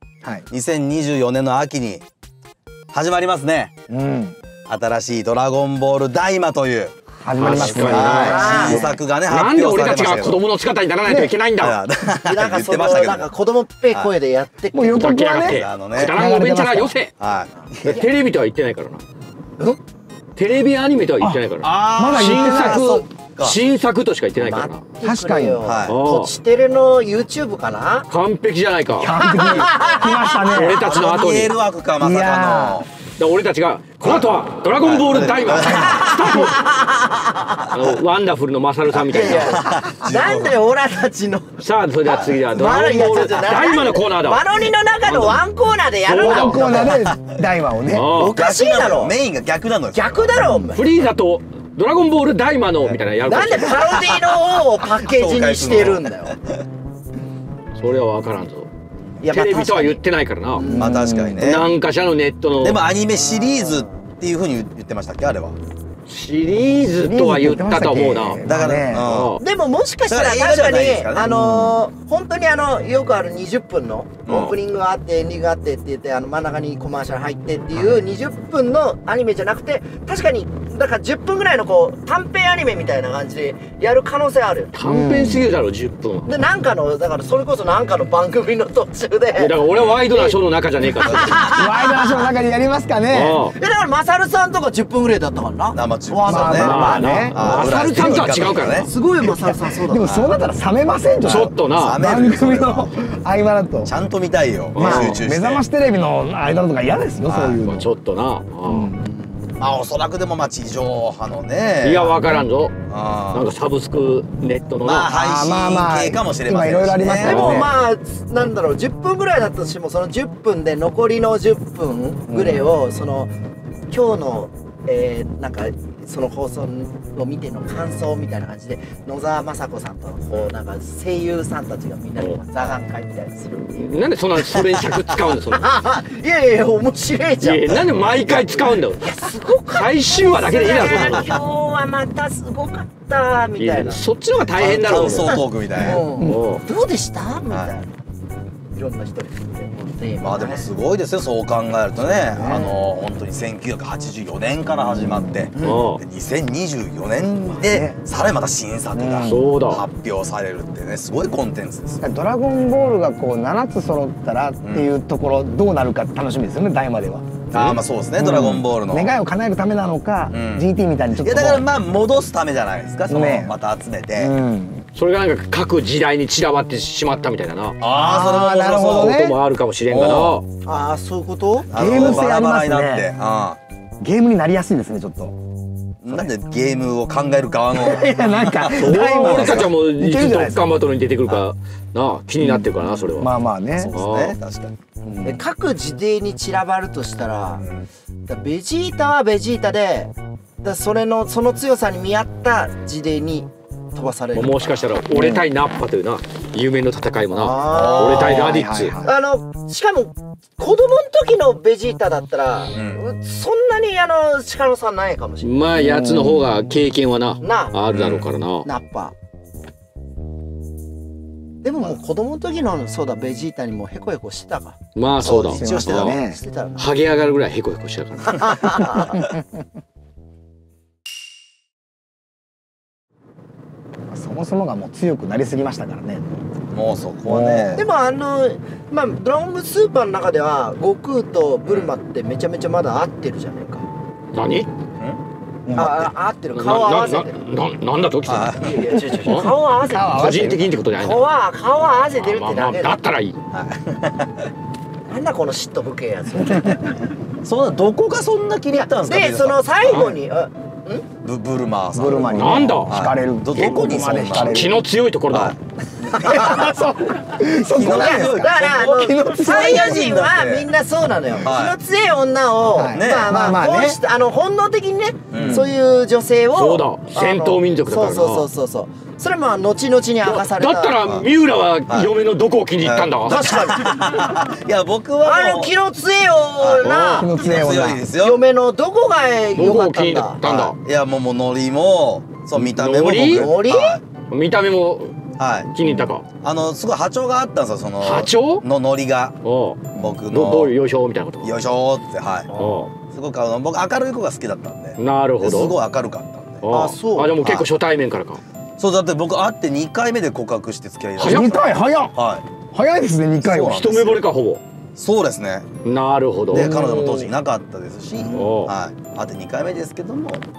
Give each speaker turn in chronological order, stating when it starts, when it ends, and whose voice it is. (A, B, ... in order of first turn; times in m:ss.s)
0:00.5-0:02.0 A
0:02.9-0:03.7 A
0:03.9-0:04.3 B
0:04.7-0:10.4 A
0:07.2-0:09.0 B
0:07.4-0:11.8 C
0:08.1-0:08.9 D
0:11.0-0:11.3 B
0:11.6-0:13.3 A
0:12.2-0:15.2 D
0:14.7-0:16.9 B
0:14.9-0:17.1 C
0:15.4-0:16.1 A
0:17.2-0:18.0 A
0:17.8-0:19.0 C
0:20.4-0:24.8 C
0:21.6-0:23.6 A
0:21.9-0:23.0 B
0:24.4-0:28.1 D
0:25.0-0:25.6 B
0:25.6-0:26.0 A
0:25.9-0:26.3 C
0:28.1-0:29.2 C
0:29.0-0:30.8 B
0:29.4-0:30.4 D
0:30.5-0:31.6 C
0:30.7-0:32.9 A
0:32.0-0:32.8 B
0:33.2-0:36.6 C
0:34.8-0:36.2 A
0:35.8-0:37.7 D
0:37.7-0:39.7 C
0:38.9-0:40.6 A
0:39.1-0:47.0 D
0:41.6-0:44.5 C
0:45.0-0:45.4 C
0:46.0-0:47.0 C
0:46.2-0:48.1 B
0:47.9-0:48.4 C
0:48.1-0:50.4 A
0:48.3-0:49.1 D
0:49.9-0:50.9 D
0:50.8-0:54.0 C
0:52.8-0:56.6 A
0:53.2-0:56.4 D
0:57.8-0:58.7 C
0:59.2-1:00.0 D
0:59.3-1:00.7 C
1:00.5-1:00.9 D
1:00.6-1:01.5 B
1:00.8-1:01.7 A
1:01.4-1:02.8 C
1:02.6-1:05.6 A
1:03.1-1:03.9 D
1:06.1-1:09.4 C
1:07.0-1:09.1 B
1:08.4-1:09.4 A
1:09.4-1:24.7 D
1:10.1-1:11.7 A
1:14.2-1:14.6 A
1:24.7-1:26.3 C
1:24.8-1:25.4 B
1:26.2-1:29.6 D
1:29.4-1:31.4 C
1:29.7-1:30.0 A
1:31.0-1:32.0 D
1:31.2-1:33.4 B
1:33.1-1:33.6 C
1:33.6-1:40.4 D
1:35.7-1:38.9 A
1:36.2-1:37.8 B
1:36.5-1:38.9 C
1:39.3-1:43.9 B
1:41.2-1:42.0 C
1:41.8-1:42.9 A
1:43.8-1:45.6 A
1:44.7-1:45.2 C
1:44.8-1:47.9 B
1:47.2-1:47.6 A
1:47.6-1:48.9 C
1:48.6-1:49.0 B
1:49.0-1:49.6 D
1:49.6-1:52.2 A
1:51.8-1:52.7 C
1:52.9-1:53.4 A
1:53.3-1:55.1 C
1:54.8-1:57.6 A
1:55.1-1:57.7 B
1:57.2-2:03.3 D
1:57.3-1:57.6 C
2:02.3-2:02.7 B
2:03.9-2:13.6 D
2:13.5-2:15.7 C
2:15.5-2:17.8 D
2:17.4-2:19.1 C
2:18.2-2:18.6 A
2:19.0-2:24.0 D
2:19.7-2:21.3 C
2:20.8-2:21.4 A
2:23.6-2:25.4 C
2:24.5-2:26.0 A
2:25.0-2:27.9 D
2:25.8-2:26.4 B
2:26.2-2:26.6 C
2:28.7-2:30.7 D
2:30.2-2:42.1 A
2:32.0-2:32.8 B
2:34.7-2:35.5 B
2:35.6-2:36.0 C
2:37.4-2:38.0 B
2:38.9-2:39.5 B
2:39.2-2:39.8 C
2:42.0-2:51.6 B
2:44.6-2:44.9 A
2:47.5-2:49.1 A
2:50.3-2:50.7 A
2:51.2-2:54.3 A
2:53.1-2:53.5 B
2:54.2-2:54.9 B
2:54.9-2:57.8 C
2:57.8-2:59.2 A
2:57.8-2:59.4 B
2:58.7-3:00.4 C
2:59.9-3:00.4 A
3:00.6-3:02.1 D
3:01.7-3:03.6 A
3:01.7-3:03.1 B
3:04.0-3:05.3 B
3:06.0-3:09.7 A
3:07.7-3:10.6 B
3:08.7-3:13.3 C
3:12.4-3:13.9 B
3:13.8-3:14.8 A
3:13.9-3:14.4 C
3:15.0-3:15.4 B
3:15.2-3:17.6 D
3:17.6-3:17.9 A
3:18.3-3:24.8 D
3:24.4-3:29.0 C
3:25.1-3:25.4 B
3:27.3-3:28.4 D
3:27.6-3:28.5 A
3:28.2-3:29.1 B
3:29.0-3:35.6 D
3:32.7-3:33.0 A
3:35.4-3:38.7 C
3:35.7-3:36.6 B
3:37.4-3:37.7 D
3:37.9-3:38.3 A
3:38.6-3:39.1 D
3:41.6-3:46.9 D
3:45.0-3:46.2 C
3:45.2-3:46.1 A
3:45.5-3:46.4 B
3:46.8-3:48.9 C
3:48.2-3:49.1 D
3:49.1-3:49.6 B
3:54.1-3:56.4 B
3:56.7-3:57.8 A
3:57.2-3:57.8 B
3:57.7-4:03.8 D
4:01.6-4:01.9 A
4:04.3-4:04.7 C
4:05.6-4:06.0 B
4:05.7-4:07.4 D
4:06.6-4:11.2 C
4:08.3-4:08.7 A
4:08.6-4:10.2 D
4:09.9-4:10.8 B
4:10.9-4:13.0 D
4:12.2-4:13.4 C
4:13.5-4:14.5 A
4:15.1-4:16.9 D
4:17.4-4:20.2 A
4:18.7-4:21.0 D
4:21.2-4:24.6 A
4:22.0-4:24.8 B
4:22.3-4:22.9 C
4:24.2-4:25.5 C
4:25.3-4:26.8 A
4:26.1-4:26.7 D
4:26.2-4:30.3 B
4:27.6-4:30.7 A
4:27.7-4:41.0 D
4:31.3-4:31.8 A
4:32.7-4:34.0 B
4:32.9-4:33.4 A
4:35.3-4:35.7 A
4:35.4-4:35.6 B
4:36.5-4:38.5 C
4:40.2-4:43.4 C
4:41.0-4:41.3 A
4:42.8-4:45.7 A
4:43.2-4:44.3 D
4:45.2-4:47.3 D
4:46.6-4:48.4 A
4:46.8-4:47.3 C
4:47.2-4:48.0 B
4:48.2-4:50.4 D
4:49.6-4:50.7 C
4:50.4-4:54.0 A
4:52.5-4:53.6 C
4:53.2-4:54.0 D
4:54.3-4:55.2 C
4:55.4-4:55.7 A
4:55.7-4:56.2 C
4:56.4-4:59.4 A
4:58.0-4:58.6 C
4:59.4-5:01.6 C
5:00.0-5:00.7 A
5:01.4-5:06.6 A
5:02.5-5:02.9 C
5:05.0-5:05.8 C
5:06.6-5:08.4 C
5:06.7-5:07.4 D
5:08.8-5:12.4 A
5:11.2-5:11.6 C
5:11.2-5:12.2 B
5:12.7-5:13.9 B
5:13.4-5:14.2 A
5:13.5-5:14.6 C
5:15.0-5:15.7 A
5:15.8-5:16.8 C
5:16.5-5:20.4 A
5:16.5-5:17.3 B
5:18.2-5:18.4 B
5:18.3-5:18.7 C